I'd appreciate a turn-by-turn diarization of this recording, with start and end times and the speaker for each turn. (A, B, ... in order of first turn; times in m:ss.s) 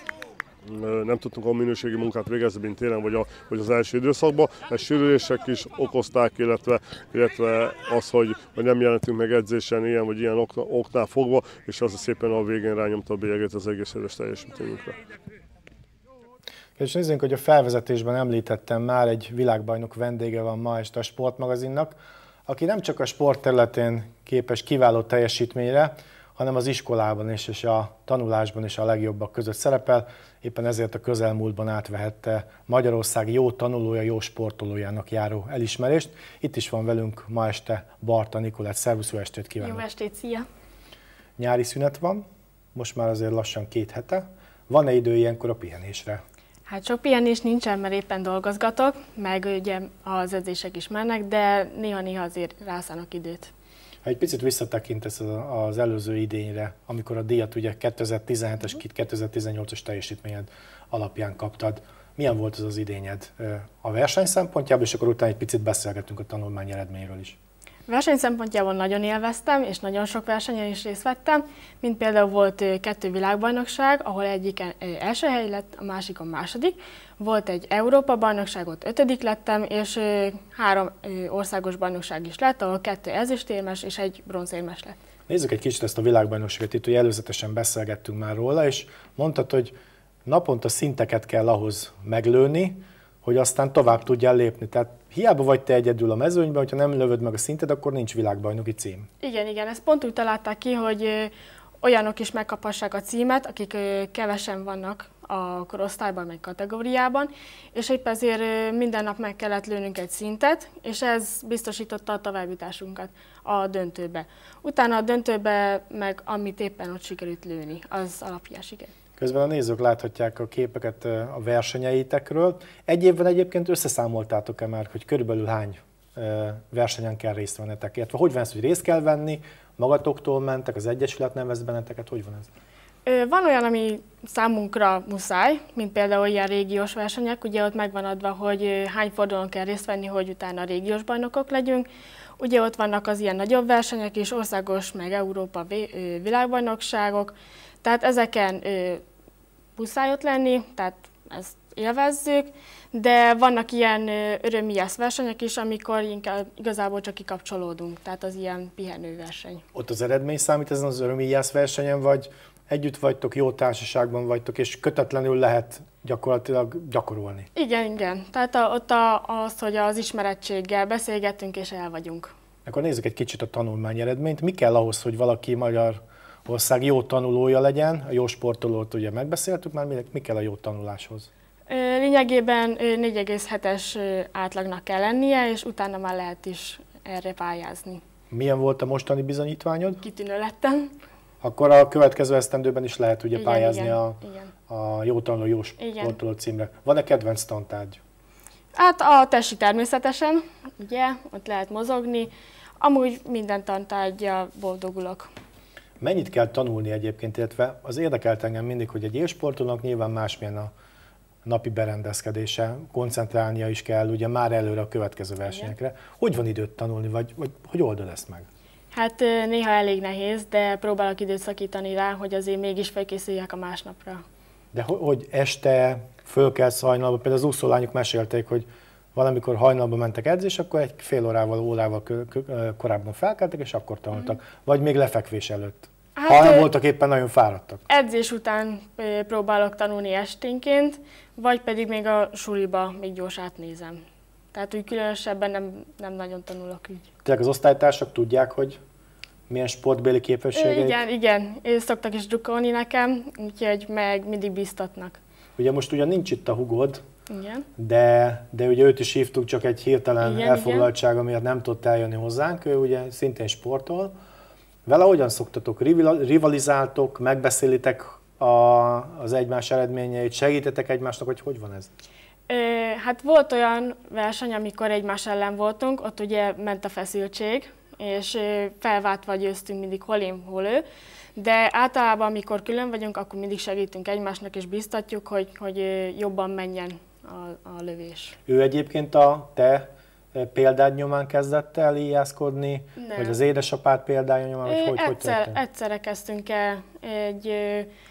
0:00.6-0:15.0 A
0:16.8-0:39.8 B
0:39.6-0:40.4 C
0:41.4-0:46.2 B
0:46.7-0:53.5 C
0:54.0-1:07.4 B
1:07.9-1:25.0 C
1:25.3-1:29.7 B
1:30.2-1:39.1 B
1:39.2-1:58.9 C
1:59.2-2:12.5 B
2:13.0-2:21.9 C
2:22.4-2:29.0 C
2:29.8-2:39.6 C
2:39.7-2:47.5 B
2:47.5-2:52.3 C
2:52.6-3:01.3 B
3:01.7-3:08.0 C
3:08.3-3:10.0 B
3:10.0-3:10.9 C
3:11.4-3:18.0 B
3:13.3-3:14.5 C
3:15.8-3:16.2 C
3:18.7-3:25.3 C
3:26.0-3:30.7 B
3:31.4-3:38.5 B
3:35.4-3:35.7 C
3:38.9-3:44.2 C
3:44.7-3:57.8 B
3:56.2-3:56.7 C
3:57.9-4:04.0 C
4:04.5-4:07.1 C
4:07.2-4:08.8 B
4:09.5-4:11.0 B
4:10.5-4:15.2 C
4:15.6-4:17.0 B
4:17.3-4:17.6 C
4:17.8-4:24.1 B
4:20.2-4:20.9 C
4:24.8-4:31.9 B
4:32.5-4:40.8 C
4:41.4-4:48.4 C
4:48.5-4:55.6 B
4:53.0-4:53.4 C
4:54.6-4:57.9 C